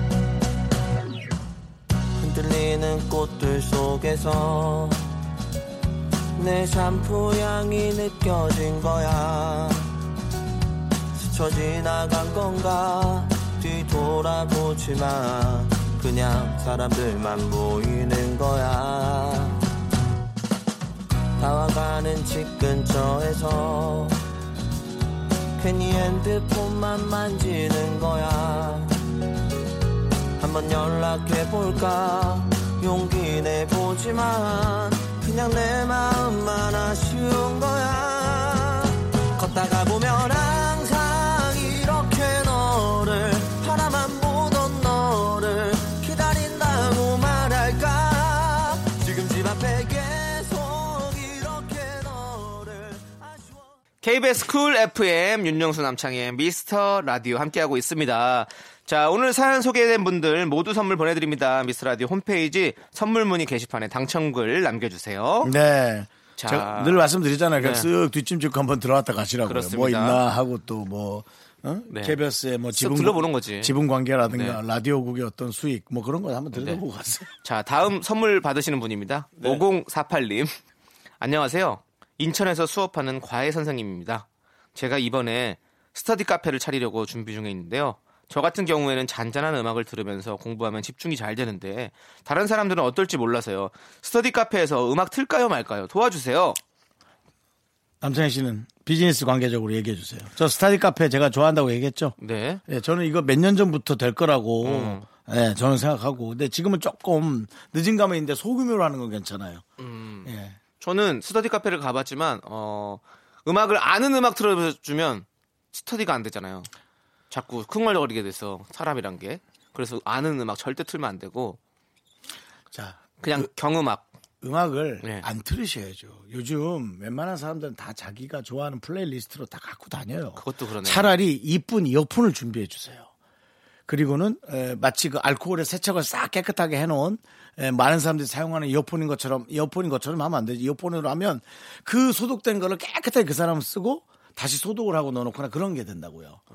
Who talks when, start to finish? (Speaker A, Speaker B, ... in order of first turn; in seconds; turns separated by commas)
Speaker A: 2.2-5.0, Speaker A: 6.4-9.9, Speaker A: 11.2-19.6, Speaker A: 21.4-24.2, Speaker A: 25.6-29.1, Speaker A: 30.4-53.7, Speaker B: 54.0-65.5, Speaker C: 65.4-77.3, Speaker B: 66.4-67.0, Speaker B: 67.6-67.9, Speaker B: 69.5-70.2, Speaker B: 71.9-72.2, Speaker B: 72.7-73.7, Speaker B: 74.3-74.6, Speaker B: 76.5-76.8, Speaker B: 77.4-80.5, Speaker C: 79.4-79.6, Speaker B: 81.2-96.6, Speaker C: 98.0-102.2, Speaker B: 102.2-102.6, Speaker C: 102.7-109.6, Speaker B: 104.6-105.1, Speaker B: 109.8-116.7, Speaker C: 110.2-110.6, Speaker B: 117.3-121.6, Speaker C: 122.7-123.5, Speaker B: 123.2-124.1, Speaker C: 124.4-133.1, Speaker B: 125.0-125.3, Speaker B: 130.4-131.2, Speaker C: 133.9-146.4